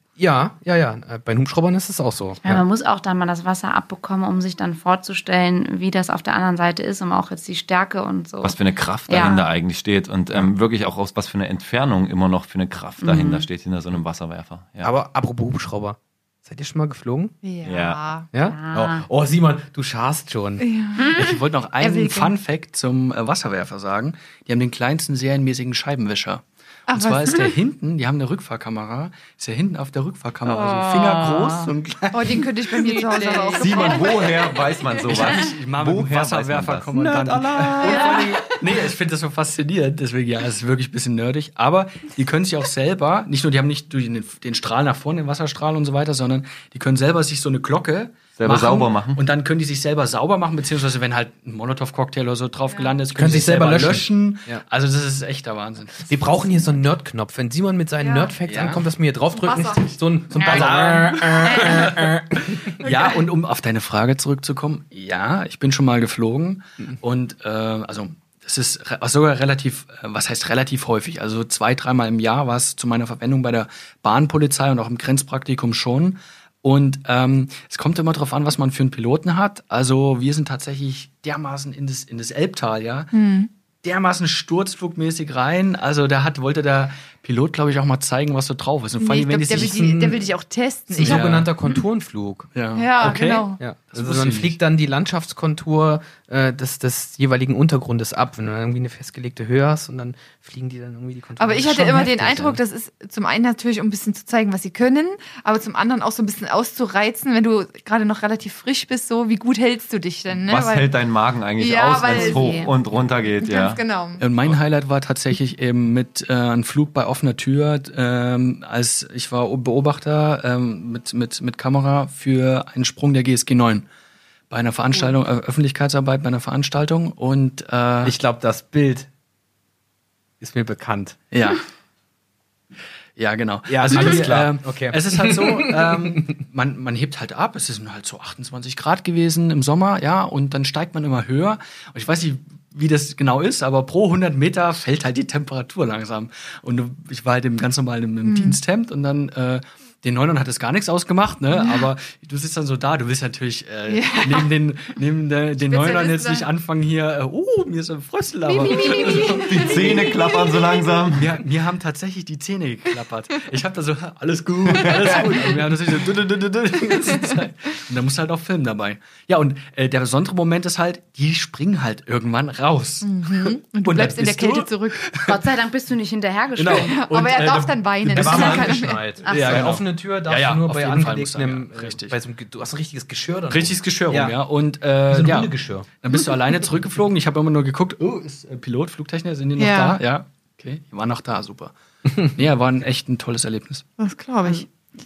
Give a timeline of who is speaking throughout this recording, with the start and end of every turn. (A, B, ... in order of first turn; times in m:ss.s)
0:00.2-0:02.6 A
0:02.4-0:09.4 B
0:08.4-0:14.9 C
0:13.0-0:13.5 B
0:14.8-0:17.3 A
0:17.4-0:18.3 D
0:17.6-0:18.0 C
0:18.3-0:20.6 A
0:18.4-0:19.1 B
0:20.6-0:22.3 D
0:21.1-0:34.1 E
0:26.9-0:27.5 D
0:30.5-0:31.7 B
0:32.1-0:35.0 D
0:33.3-0:33.6 B
0:33.6-0:36.9 C
0:35.0-0:56.5 E
0:36.9-0:38.6 A
0:48.4-0:49.2 C
0:52.7-0:53.0 D
0:53.2-0:54.6 A
0:56.1-1:02.7 A
0:58.0-0:58.4 D
0:58.4-0:58.8 E
0:59.3-1:00.5 D
1:00.4-1:02.0 E
1:01.5-1:01.8 D
1:02.6-1:23.1 E
1:02.8-1:03.2 D
1:23.1-1:23.5 D
1:23.8-1:30.0 E
1:29.0-1:31.4 D
1:29.7-1:30.2 A
1:30.9-1:42.6 A
1:31.0-1:31.5 E
1:32.5-1:34.6 E
1:32.8-1:33.6 D
1:41.4-1:50.9 D
1:50.3-1:53.8 C
1:51.6-1:52.7 D
1:52.1-1:52.7 B
1:53.4-1:54.2 D
1:54.2-2:03.9 E
2:04.5-2:08.2 E
2:08.0-2:09.1 A
2:10.4-2:11.2 A
2:11.3-2:11.6 E
2:13.2-2:40.0 E
2:13.7-2:16.3 A
2:28.2-2:28.6 D
2:31.6-2:31.8 D
2:33.9-2:34.5 D
2:35.6-2:36.5 D
2:38.5-2:41.0 D
2:38.9-2:41.4 C
2:41.1-2:55.4 E
2:44.9-2:45.5 D
2:53.0-2:55.1 D
2:55.2-2:57.0 B
2:56.6-3:02.2 E
2:56.7-2:59.0 D
2:58.1-3:04.4 A
2:59.2-2:59.7 B
3:03.5-3:13.8 E
3:05.1-3:05.9 A
3:09.6-3:10.0 D
3:14.0-3:14.7 D